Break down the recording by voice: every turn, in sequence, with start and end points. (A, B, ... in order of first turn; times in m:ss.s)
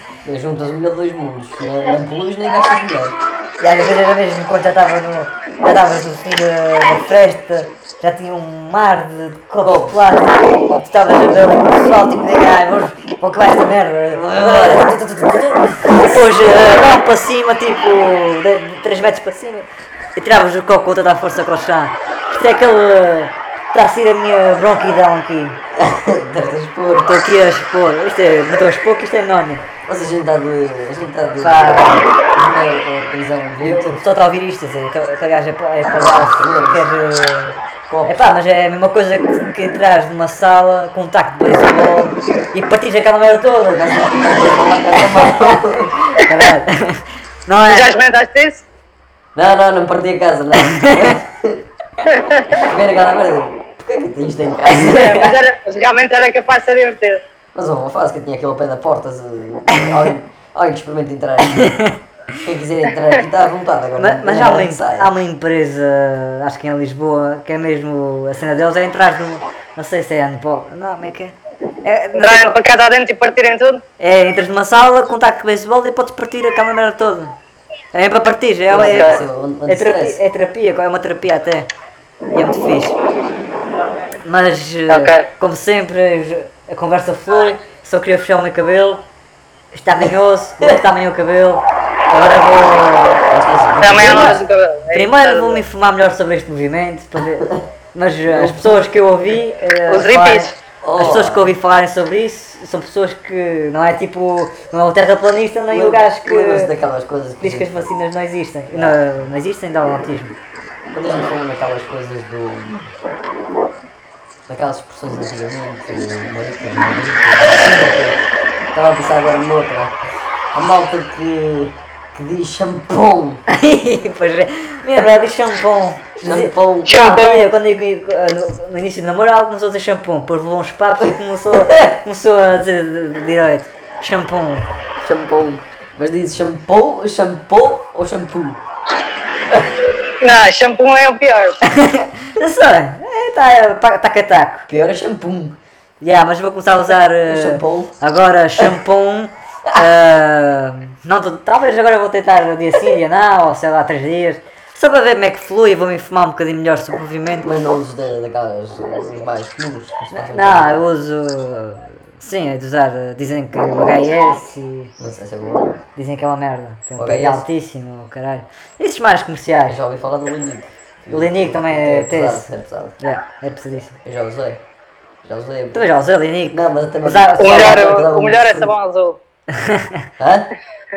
0:00.2-0:03.2 A
0:03.6-0:15.0 B
0:09.6-0:10.0 A
0:14.1-0:16.1 A
0:15.9-0:25.6 B
0:25.8-0:27.2 A
0:27.0-0:29.6 B
0:29.8-0:34.0 A
0:31.4-0:32.1 B
0:33.6-0:44.1 B
0:35.9-0:36.8 A
0:37.9-0:38.3 A
0:43.7-0:46.0 A
0:45.1-0:45.6 B
0:46.2-0:47.9 B
0:47.7-0:48.6 C
0:49.3-0:51.6 A
0:50.6-0:51.1 B
0:52.1-0:52.5 C
0:52.5-0:55.3 A
0:54.8-0:57.2 C
0:57.5-1:01.8 A
0:59.7-1:00.0 B
1:01.4-1:02.0 B
1:02.4-1:05.1 A
1:04.0-1:12.5 B
1:12.2-1:13.8 C
1:14.0-1:17.4 B
1:17.9-1:21.7 B
1:18.7-1:20.2 A
1:18.8-1:19.2 C
1:22.3-1:23.0 B
1:24.2-1:29.0 B
1:24.9-1:25.3 C
1:29.7-1:33.3 B
1:33.3-1:34.4 A
1:33.8-1:35.6 C
1:34.0-1:34.4 B
1:34.9-1:46.7 B
1:38.3-1:38.8 A
1:39.9-1:40.5 C
1:40.8-1:41.5 A
1:45.7-1:47.9 A
1:47.4-1:50.4 B
1:48.7-1:49.0 A
1:50.9-1:52.9 A
1:54.5-1:58.2 A
1:58.7-2:00.0 A
2:00.5-2:03.4 A
2:03.5-2:14.7 B
2:06.2-2:06.9 A
2:06.8-2:07.5 C
2:11.5-2:11.9 A
2:15.0-2:18.6 A
2:20.2-2:21.6 C
2:21.6-2:24.7 B
2:24.7-2:25.6 A
2:26.0-2:37.5 B
2:27.2-2:28.0 A
2:37.4-2:40.8 A
2:40.1-2:44.9 B
2:45.0-2:45.8 A
2:46.0-2:49.8 B
2:47.0-2:47.4 A
2:49.7-2:53.0 A
2:51.1-2:54.0 B
2:54.0-2:54.6 A
2:55.2-2:55.8 A
2:55.7-2:57.8 B
2:56.5-2:58.7 A
2:57.4-2:59.2 C
2:59.5-3:00.1 B
3:00.2-3:00.5 A